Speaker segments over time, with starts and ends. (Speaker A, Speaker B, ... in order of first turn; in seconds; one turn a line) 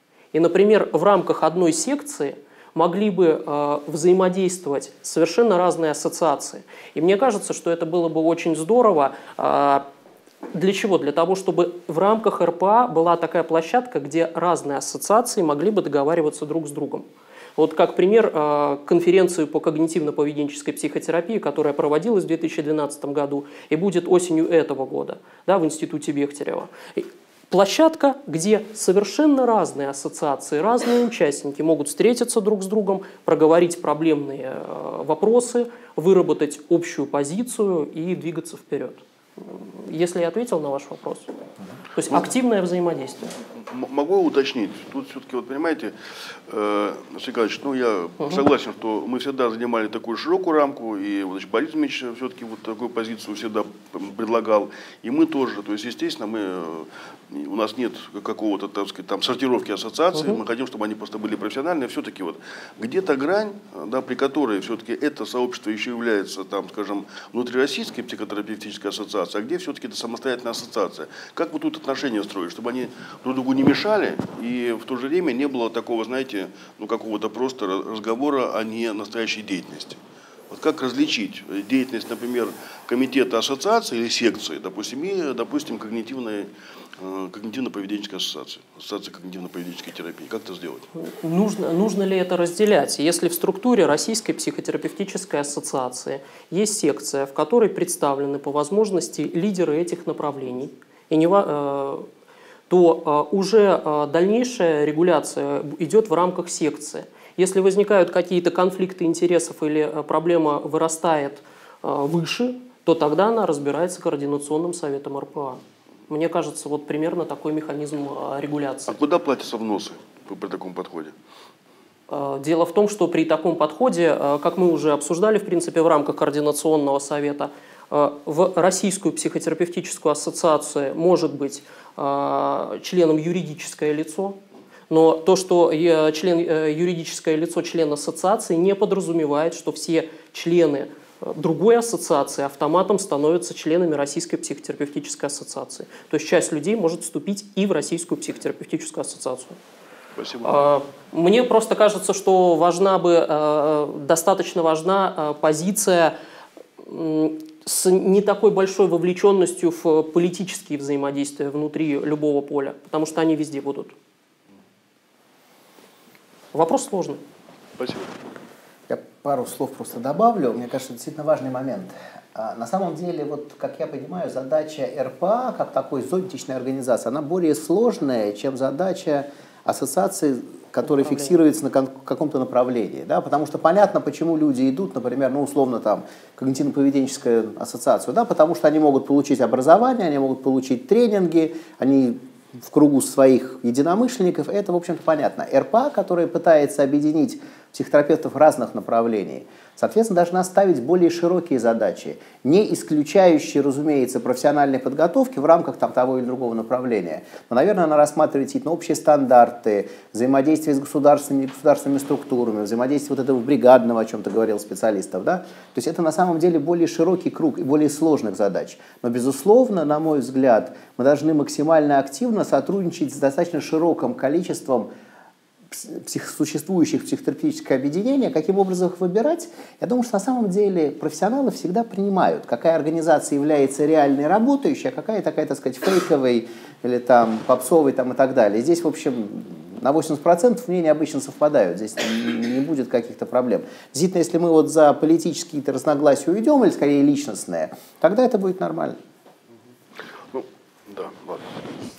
Speaker A: 0.3-9.8
Speaker A: 10.5-17.1
Speaker A: 17.6-41.3
Speaker A: 41.9-43.3
Speaker B: 43.6-45.9
Speaker B: 46.5-80.0
Speaker A: 60.1-60.4
Speaker B: 80.5-90.9
Speaker A: 91.0-102.0
Speaker A: 102.7-119.0
Speaker B: 118.9-121.1
Speaker A: 122.1-134.4
Speaker A: 134.9-149.6
Speaker B: 150.2-150.6
Speaker A: 150.4-156.1
Speaker A: 156.8-163.9
Speaker A: 166.5-167.2
Speaker B: 167.8-168.1
Speaker C: 168.9-224.9
Speaker A: 180.8-181.3
Speaker C: 225.7-249.0
Speaker B: 250.3-251.7